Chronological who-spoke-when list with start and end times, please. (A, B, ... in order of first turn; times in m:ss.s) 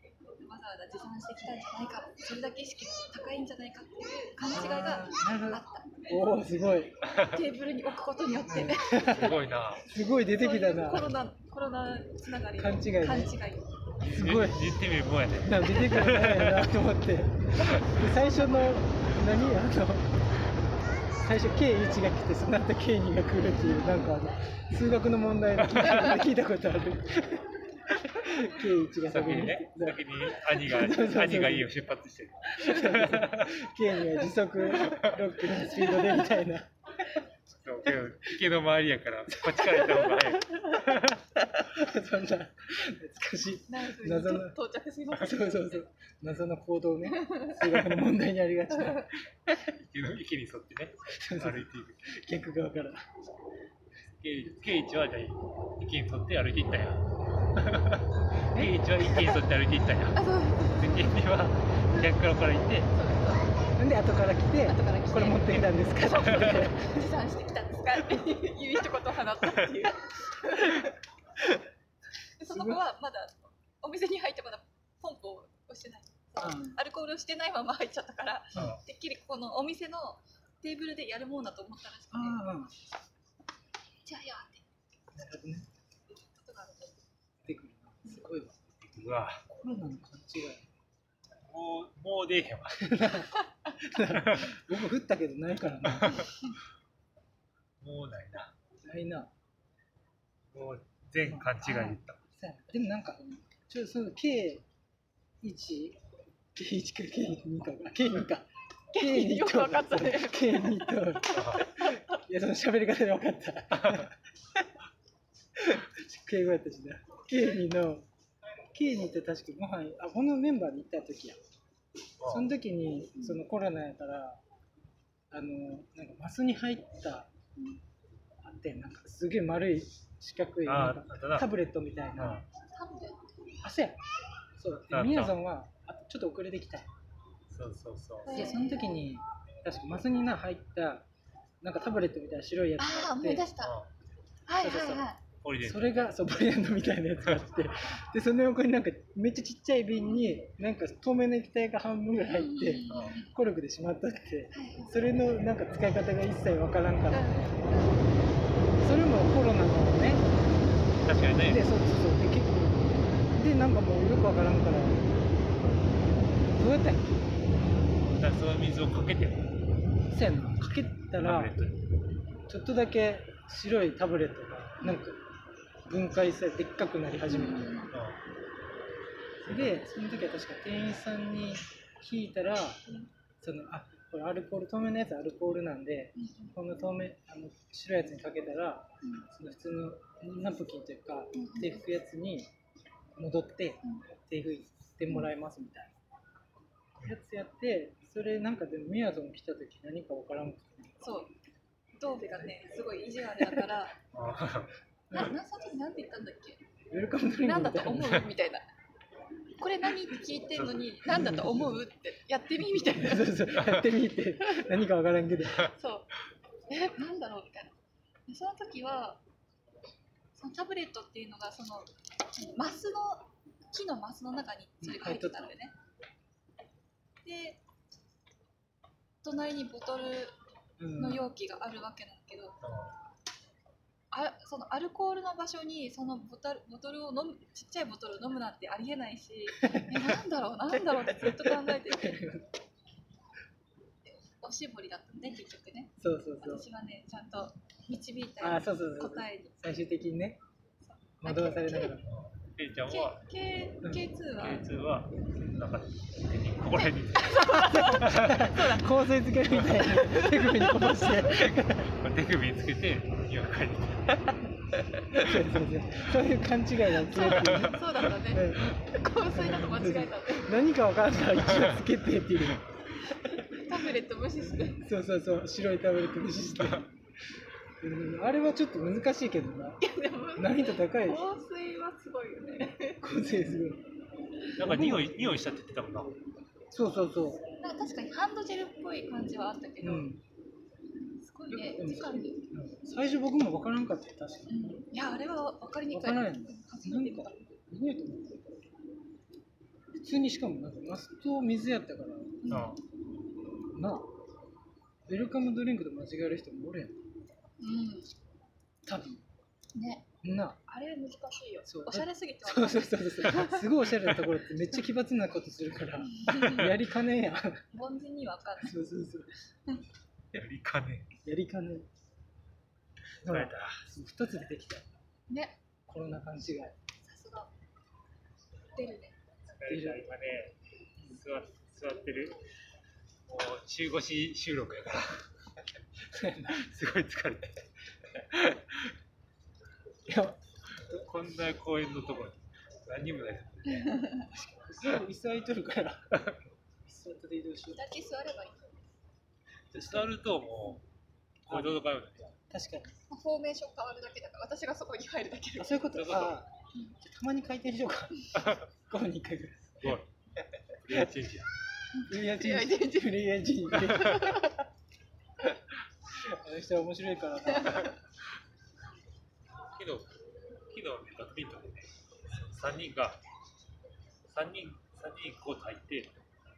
0:00.4-0:06.3 A
0:04.4-0:07.0 B
0:07.1-0:07.4 C
0:07.1-0:09.4 A
0:08.4-0:11.1 B
0:09.0-0:09.9 C
0:10.3-0:13.6 A
0:12.6-0:13.4 B
0:14.0-0:16.7 C
0:14.0-0:14.7 B
0:15.4-0:20.2 B
0:21.2-0:31.7 B
0:23.6-0:24.1 A
0:29.0-0:33.6 C
0:32.6-0:36.7 B
0:34.7-0:35.3 C
0:35.8-0:36.3 A
0:37.5-0:41.2 C
0:39.3-0:40.7 B
0:41.4-0:44.6 B
0:43.7-0:45.8 A
0:45.1-0:49.7 B
0:47.1-0:47.6 A
0:48.7-0:49.1 A
0:49.7-0:52.1 C
0:51.0-0:53.0 B
0:54.2-0:57.0 C
0:57.6-1:00.2 C
1:00.1-1:00.9 A
1:00.7-1:02.9 C
1:02.9-1:03.5 A
1:03.8-1:07.0 B
1:04.6-1:10.9 A
1:06.2-1:06.6 C
1:12.4-1:22.4 A
1:12.4-1:12.8 B
1:16.4-1:16.8 B
1:18.5-1:18.8 B
1:18.5-1:18.8 C
1:22.1-1:22.7 B
1:24.0-1:24.7 A
1:25.1-1:25.7 B
1:26.1-1:27.0 A
1:27.4-1:28.6 B
1:28.8-1:29.4 C
1:29.5-1:30.7 B
1:31.4-1:32.9 C
1:32.7-1:36.4 B
1:34.2-1:34.5 C
1:37.8-1:38.5 C
1:38.8-1:39.3 B
1:40.5-1:42.2 C
1:41.2-1:44.6 B
1:41.7-1:41.9 A
1:45.4-1:46.0 B
1:46.5-1:54.7 B
1:48.9-1:52.0 A
1:51.3-1:51.7 C
1:55.6-1:58.0 B
1:58.7-2:01.4 B
2:02.2-2:02.5 C
2:02.2-2:04.4 B
2:03.1-2:03.4 A
2:05.3-2:07.3 B
2:08.4-2:12.4 B
2:10.6-2:11.5 C
2:12.1-2:12.4 C
2:12.7-2:13.2 A
2:13.6-2:14.0 B
2:14.6-2:16.9 B
2:14.9-2:15.4 C
2:17.5-2:18.4 C
2:18.2-2:18.9 A
2:18.3-2:21.0 B
2:21.6-2:23.5 B
2:22.8-2:23.7 A
2:23.6-2:23.9 C
2:24.5-2:25.2 A
2:24.6-2:25.1 B
2:25.4-2:26.1 C
2:25.6-2:37.4 B
2:32.2-2:33.3 A
2:32.9-2:33.2 C
2:34.5-2:35.0 A
2:37.1-2:38.0 A
2:38.8-2:40.2 B
2:41.0-2:41.6 C
2:41.1-2:45.0 B
2:46.5-2:47.2 B
2:48.0-2:49.5 C
2:50.1-2:51.5 B
2:51.2-2:51.8 C
2:52.5-2:55.2 B
2:55.9-2:57.8 B
2:57.3-2:57.9 A
2:57.9-2:58.2 C
2:59.4-3:02.8 B
3:03.4-3:12.5 B
3:06.2-3:06.6 A
3:09.0-3:09.3 A
3:11.3-3:11.8 A
3:13.2-3:15.9 B
3:17.0-3:21.0 B
3:21.0-3:21.3 A
3:22.0-3:24.0 A
3:24.1-3:24.7 C
3:25.1-3:25.4 B
3:25.1-3:26.6 A
3:26.9-3:28.3 B
3:27.4-3:28.6 A
3:29.6-3:33.4 A
3:30.5-3:31.2 C
3:31.1-3:31.8 B
3:32.8-3:35.7 B
3:34.4-3:34.7 A
3:35.6-3:36.1 A
3:36.7-3:37.7 A
3:38.3-3:39.2 A
3:40.4-3:45.7 A
3:44.8-3:45.5 B
3:47.2-3:47.6 A
3:49.2-3:50.4 A
3:50.8-3:51.3 B
3:50.9-3:52.6 A
3:52.6-3:53.0 C
3:54.1-4:02.2 A
3:59.5-4:02.5 B
4:04.2-4:09.5 A
4:06.0-4:06.7 B
4:08.4-4:10.4 B
4:10.8-4:12.0 A
4:11.2-4:12.1 B
4:12.0-4:13.2 C
4:12.9-4:14.7 A
4:14.4-4:18.7 C
4:16.7-4:18.8 A
4:17.4-4:21.9 B
4:19.8-4:21.2 A
4:21.2-4:24.4 C
4:25.1-4:33.5 B
4:27.0-4:30.5 A
4:27.3-4:27.8 C
4:33.5-4:34.8 A
4:34.4-4:36.9 B
4:37.8-4:41.3 B
4:39.8-4:43.0 A
4:43.0-4:43.8 B
4:44.6-4:46.1 C
4:44.6-4:45.2 B
4:46.7-4:47.4 B
4:47.6-4:50.1 A
4:49.8-4:50.2 B
4:51.2-4:52.4 A
4:51.5-4:54.5 B
4:54.5-4:57.4 A
4:55.9-4:58.4 B
5:00.0-5:02.7 B
5:02.4-5:02.8 A
5:02.5-5:02.8 C
5:03.7-5:04.1 B
5:05.1-5:07.0 B
5:07.6-5:08.1 A
5:08.8-5:09.2 B
5:09.7-5:10.0 A
5:10.2-5:10.6 B
5:10.6-5:13.7 A
5:11.6-5:17.6 B
5:16.0-5:16.7 A
5:17.7-5:18.7 A
5:18.6-5:19.3 B
5:20.3-5:21.1 C
5:21.2-5:21.9 B
5:23.2-5:24.8 B
5:23.2-5:23.8 C
5:25.3-5:25.6 A
5:25.9-5:26.7 B
5:27.0-5:27.5 A
5:28.7-5:29.2 A
5:29.5-5:32.4 C
5:29.6-5:30.0 B
5:33.3-5:35.2 C
5:36.1-5:36.7 B
5:36.5-5:38.9 C
5:40.0-5:41.0 B
5:40.9-5:44.1 C
5:43.9-5:44.2 A
5:44.3-5:47.8 B
5:47.7-5:48.7 A
5:49.7-5:50.8 C
5:49.8-5:50.1 B
5:51.4-5:52.3 C
5:51.5-5:51.8 B
5:52.5-5:52.9 B
5:53.1-5:55.9 A
5:55.6-6:00.0 B
5:55.9-5:56.4 C
5:58.3-5:58.7 C
5:59.8-6:00.1 C
6:00.7-6:01.5 C
6:01.9-6:03.2 A
6:02.1-6:04.6 B
6:03.7-6:04.5 A
6:06.1-6:07.9 B
6:07.6-6:07.9 A
6:09.7-6:10.1 C
6:10.7-6:13.2 C
6:14.2-6:16.1 C